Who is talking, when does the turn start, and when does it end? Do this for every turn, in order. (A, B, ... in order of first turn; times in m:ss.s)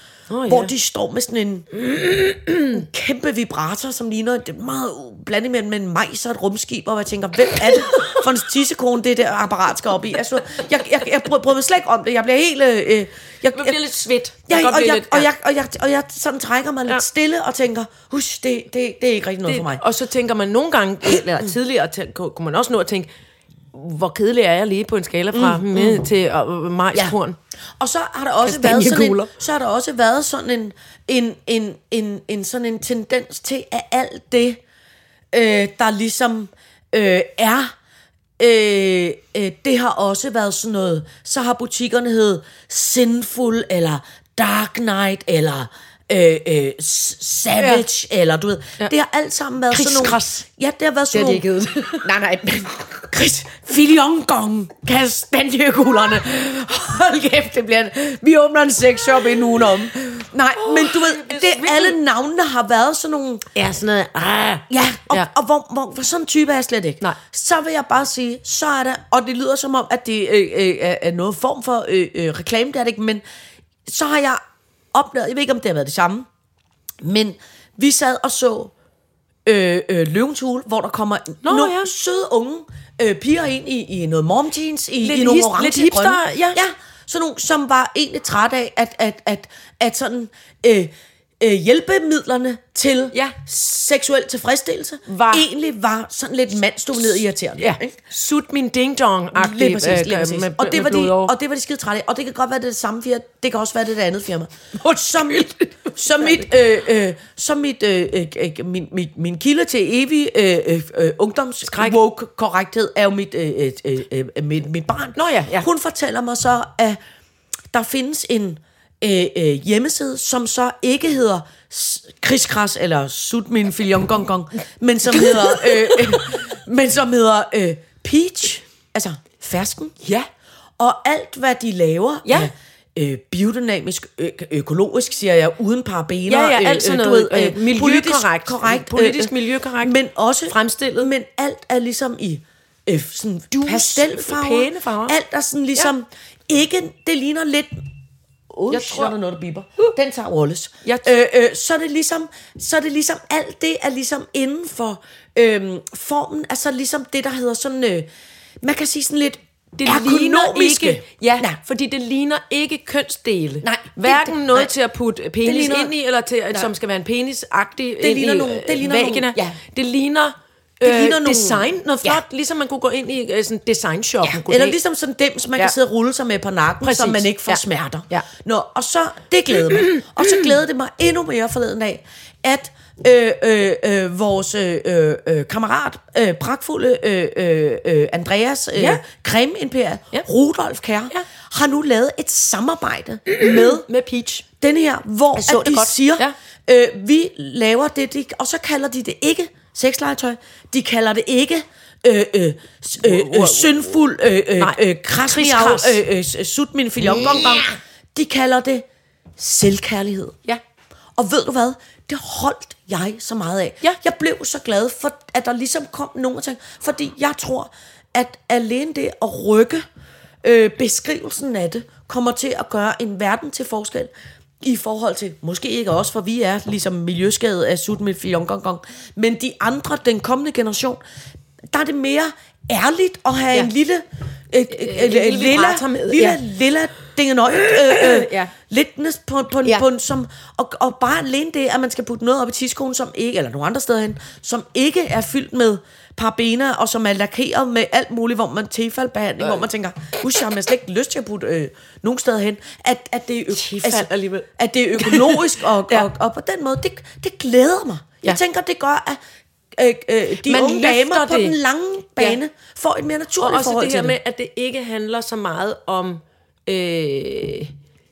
0:00.3-0:00.7 A
0:00.5-0:01.8 B
0:01.8-0:02.8 A
0:02.6-0:13.8 B
0:13.5-0:15.3 A
0:14.5-0:19.8 B
0:19.4-0:23.1 A
0:23.7-0:27.4 A
0:25.3-0:26.0 B
0:27.8-0:34.6 B
0:28.4-0:29.3 A
0:35.3-0:37.7 B
0:38.4-0:51.4 B
0:47.6-0:47.8 A
0:49.7-0:50.4 A
0:51.1-0:52.2 A
0:52.0-1:03.5 B
1:00.5-1:02.0 A
1:03.5-1:05.3 A
1:04.7-1:13.2 B
1:13.8-1:14.4 B
1:14.9-1:16.3 B
1:17.0-1:18.7 B
1:19.4-1:38.0 B
1:21.4-1:21.9 A
1:25.0-1:26.6 A
1:35.1-1:35.5 A
1:37.6-1:41.3 A
1:39.3-1:57.0 B
1:44.9-1:46.3 A
1:51.7-1:52.0 A
1:55.2-1:55.7 A
1:57.7-2:09.9 B
2:05.1-2:06.0 A
2:10.0-2:10.3 A
2:10.8-2:27.9 B
2:12.2-2:12.5 A
2:16.3-2:20.0 A
2:20.5-2:21.1 A
2:23.5-2:25.2 A
2:28.5-2:38.1 B
2:28.7-2:29.1 A
2:38.6-2:41.6 B
2:39.8-2:54.8 A
2:43.6-2:44.7 B
2:45.4-2:45.9 B
2:48.0-2:49.6 B
2:50.8-2:52.2 B
2:54.2-3:13.8 B
2:56.8-2:58.2 A
2:59.7-3:00.4 A
3:08.8-3:09.0 A
3:13.3-3:14.4 A
3:14.6-3:28.8 B
3:15.4-3:16.3 A
3:23.0-3:23.9 A
3:24.6-3:26.0 A
3:27.1-3:27.7 A
3:29.4-3:30.4 B
3:31.2-3:39.8 B
3:40.4-3:51.0 B
3:51.7-4:19.2 B
3:54.7-3:56.4 A
3:57.9-3:58.5 A
4:13.5-4:16.0 A
4:19.7-4:24.2 B
4:20.4-4:21.6 A
4:23.4-4:27.7 A